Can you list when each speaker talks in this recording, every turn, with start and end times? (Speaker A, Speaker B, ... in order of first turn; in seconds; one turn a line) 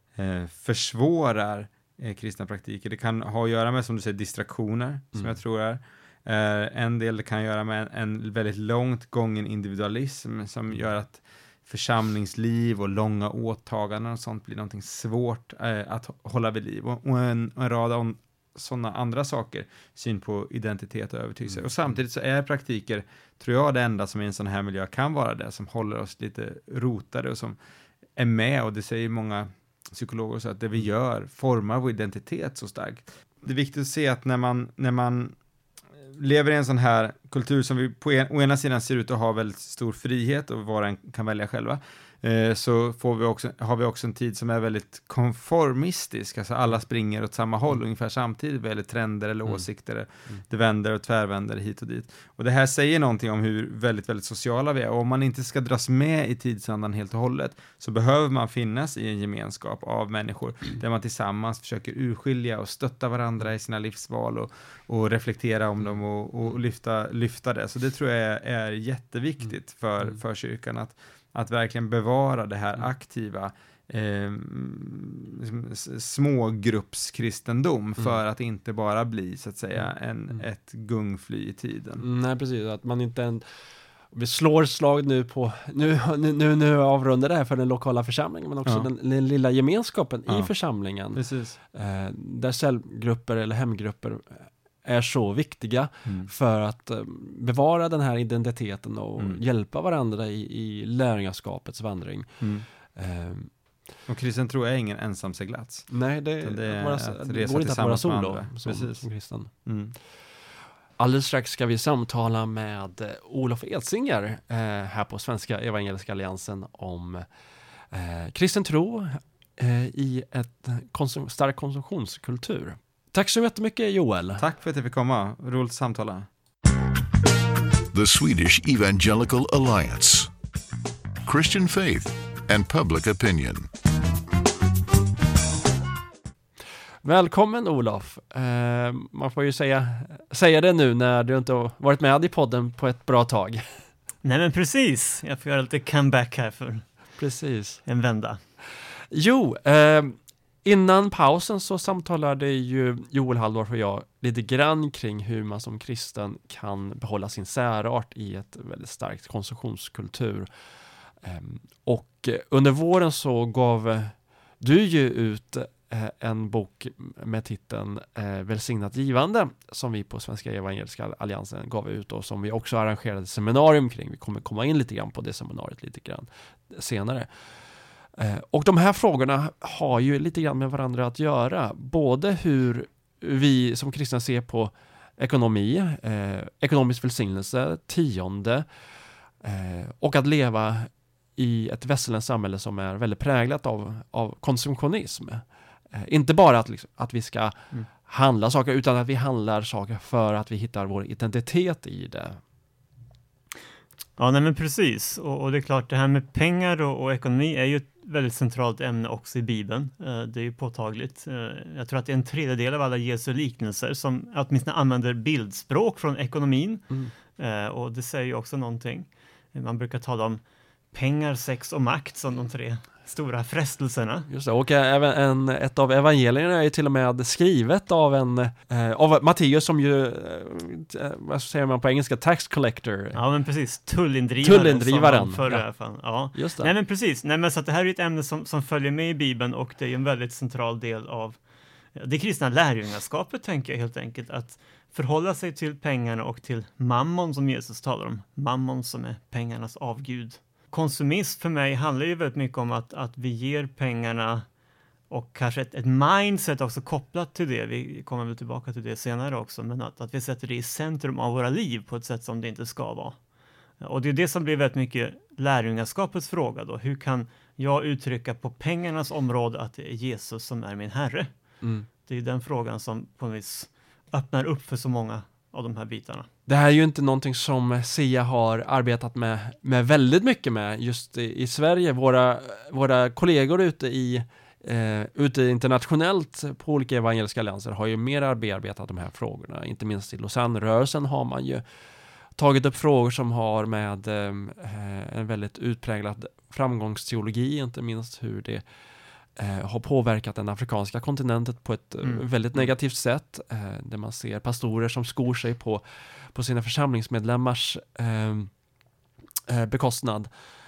Speaker A: 0.2-27.6
Speaker A: 28.2-35.4
Speaker A: 36.1-82.0
Speaker B: 82.0-83.5
Speaker B: 84.1-91.2
Speaker A: 90.3-90.5
Speaker A: 91.1-91.6
Speaker B: 91.7-103.5
Speaker A: 104.1-110.0
Speaker B: 105.9-109.5
Speaker B: 111.0-117.2
Speaker B: 117.9-124.4
Speaker A: 124.4-126.3
Speaker C: 127.9-130.3
Speaker C: 131.2-133.7
Speaker B: 137.0-143.7
Speaker D: 144.2-146.9
Speaker B: 147.2-147.8
Speaker D: 147.8-148.4
Speaker B: 149.1-160.5
Speaker B: 161.2-177.3
Speaker B: 178.2-188.7
Speaker B: 189.4-202.4
Speaker D: 204.2-220.4
Speaker D: 220.9-224.3
Speaker B: 224.3-233.2
Speaker D: 233.1-241.4
Speaker B: 234.4-235.7
Speaker B: 236.3-236.7
Speaker D: 242.0-254.4
Speaker D: 255.1-263.2
Speaker D: 263.8-271.3
Speaker B: 271.6-271.9
Speaker D: 272.1-276.3
Speaker B: 276.5-291.6
Speaker B: 292.4-298.6
Speaker B: 299.4-305.8
Speaker B: 306.3-308.5
Speaker B: 309.5-310.3